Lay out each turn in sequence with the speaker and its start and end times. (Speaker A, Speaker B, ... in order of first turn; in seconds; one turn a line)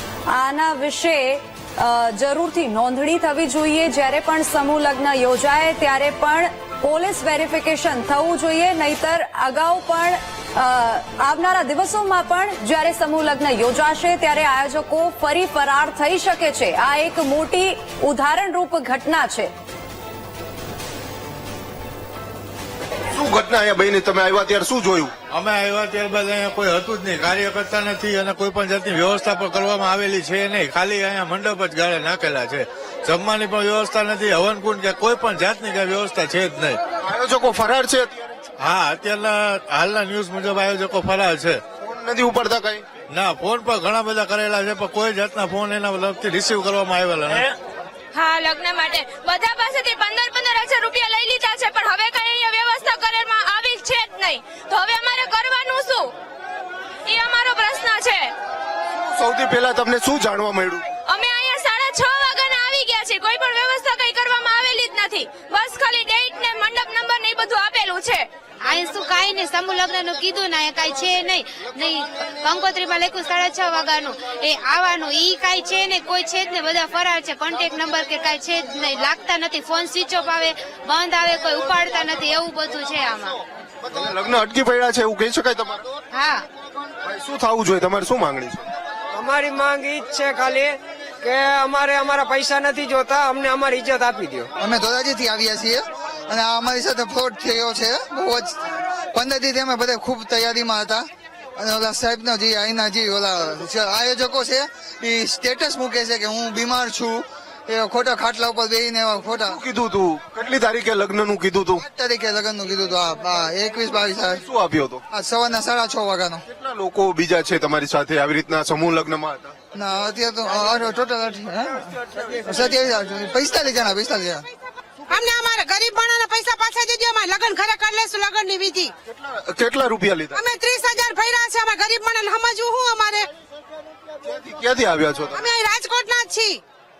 Speaker A: 0.3-19.5
Speaker B: 23.1-25.1
Speaker C: 25.3-36.8
Speaker B: 37.0-38.3
Speaker C: 38.6-41.6
Speaker B: 41.8-42.8
Speaker C: 43.1-47.5
Speaker D: 48.1-56.1
Speaker D: 57.0-58.3
Speaker B: 59.1-60.8
Speaker D: 61.0-68.3
Speaker E: 68.6-83.4
Speaker B: 83.8-85.8
Speaker E: 86.1-86.4
Speaker B: 87.0-88.7
Speaker F: 89.2-94.5
Speaker G: 94.6-98.6
Speaker G: 99.1-101.0
Speaker G: 101.6-109.6
Speaker B: 109.4-111.8
Speaker G: 111.8-114.4
Speaker B: 114.3-115.0
Speaker G: 115.1-116.4
Speaker B: 116.5-119.5
Speaker G: 119.7-124.5
Speaker H: 125.1-128.9
Speaker B: 129.1-130.4
Speaker H: 130.3-133.3
Speaker B: 134.2-135.5
Speaker H: 135.3-136.6